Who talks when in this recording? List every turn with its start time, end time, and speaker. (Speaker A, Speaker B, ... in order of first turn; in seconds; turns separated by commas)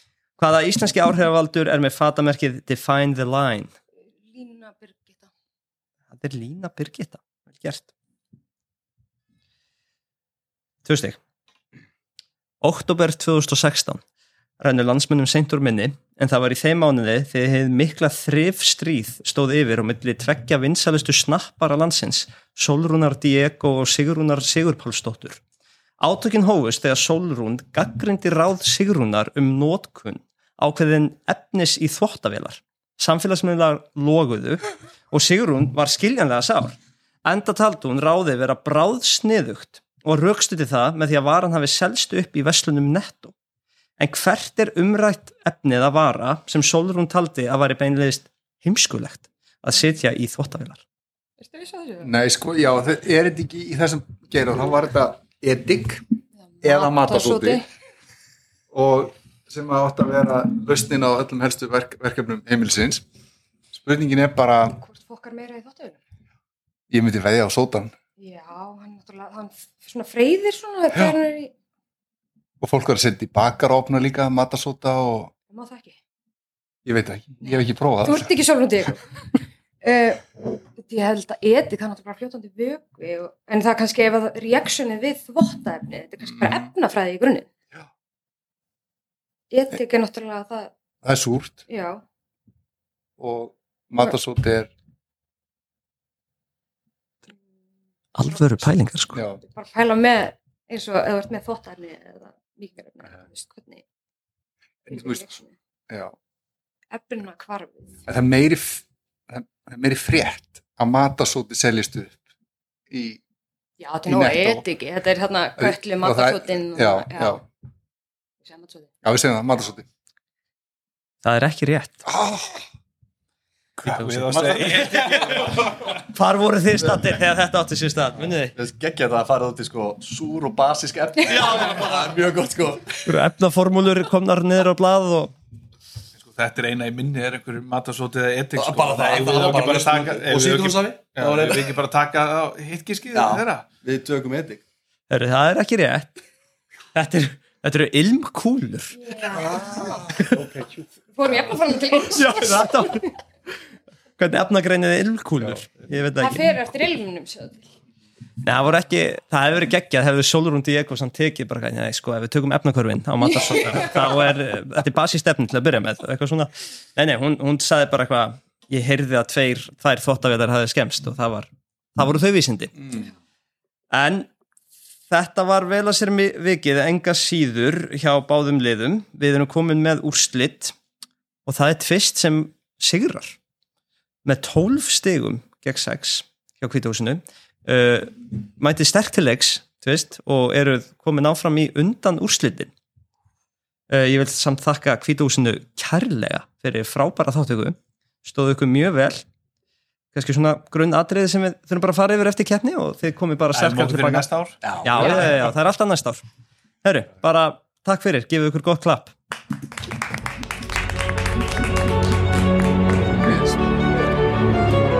Speaker A: 0.4-3.7, Speaker B: 4.3-5.3, Speaker A: 6.1-7.9, Speaker A: 10.8-11.2, Speaker A: 12.6-14.0, Speaker A: 14.6-25.4, Speaker A: 26.0-43.3, Speaker A: 44.0-50.8, Speaker B: 51.4-52.1, Speaker C: 52.0-56.0, Speaker B: 56.6-57.6, Speaker C: 56.6-57.6, Speaker C: 58.7-63.0, Speaker C: 63.7-64.8, Speaker B: 64.8-66.0, Speaker C: 66.9-67.9, Speaker B: 68.2-71.5, Speaker C: 72.6-75.3, Speaker B: 75.5-76.0, Speaker C: 76.8-78.3, Speaker B: 77.4-79.0, Speaker B: 79.8-87.5, Speaker C: 86.3-86.7, Speaker B: 89.5-90.7, Speaker C: 91.0-91.6, Speaker B: 91.7-92.0, Speaker C: 93.2-94.7, Speaker A: 98.1-99.2, Speaker C: 99.1-99.4, Speaker B: 99.4-103.8, Speaker C: 104.9-105.2, Speaker B: 104.9-105.5, Speaker B: 106.9-108.0, Speaker C: 108.1-112.2, Speaker C: 112.9-113.2, Speaker B: 113.8-117.4, Speaker C: 114.0-114.7, Speaker C: 115.6-117.4, Speaker B: 118.4-118.9, Speaker C: 119.0-119.8, Speaker A: 121.2-122.1, Speaker C: 122.1-122.6, Speaker D: 123.8-125.8, Speaker A: 123.8-128.5, Speaker E: 128.5-133.1, Speaker B: 131.2-131.5, Speaker A: 133.0-135.3, Speaker D: 136.2-143.7, Speaker E: 138.6-141.7, Speaker E: 143.1-144.6, Speaker A: 145.1-146.2, Speaker A: 146.9-149.0, Speaker B: 148.9-150.2, Speaker C: 149.4-150.9, Speaker B: 151.1-152.8, Speaker A: 152.0-153.1, Speaker A: 154.2-156.5, Speaker B: 156.2-157.6, Speaker A: 158.4-172.8, Speaker B: 163.3-164.0, Speaker A: 173.9-174.3, Speaker A: 175.1-180.7, Speaker A: 181.4-183.4, Speaker A: 184.2-192.7, Speaker A: 193.9-199.2, Speaker A: 200.1-204.3, Speaker D: 203.5-205.5, Speaker E: 204.6-205.1, Speaker A: 204.8-206.2, Speaker A: 206.8-209.1, Speaker C: 213.2-213.7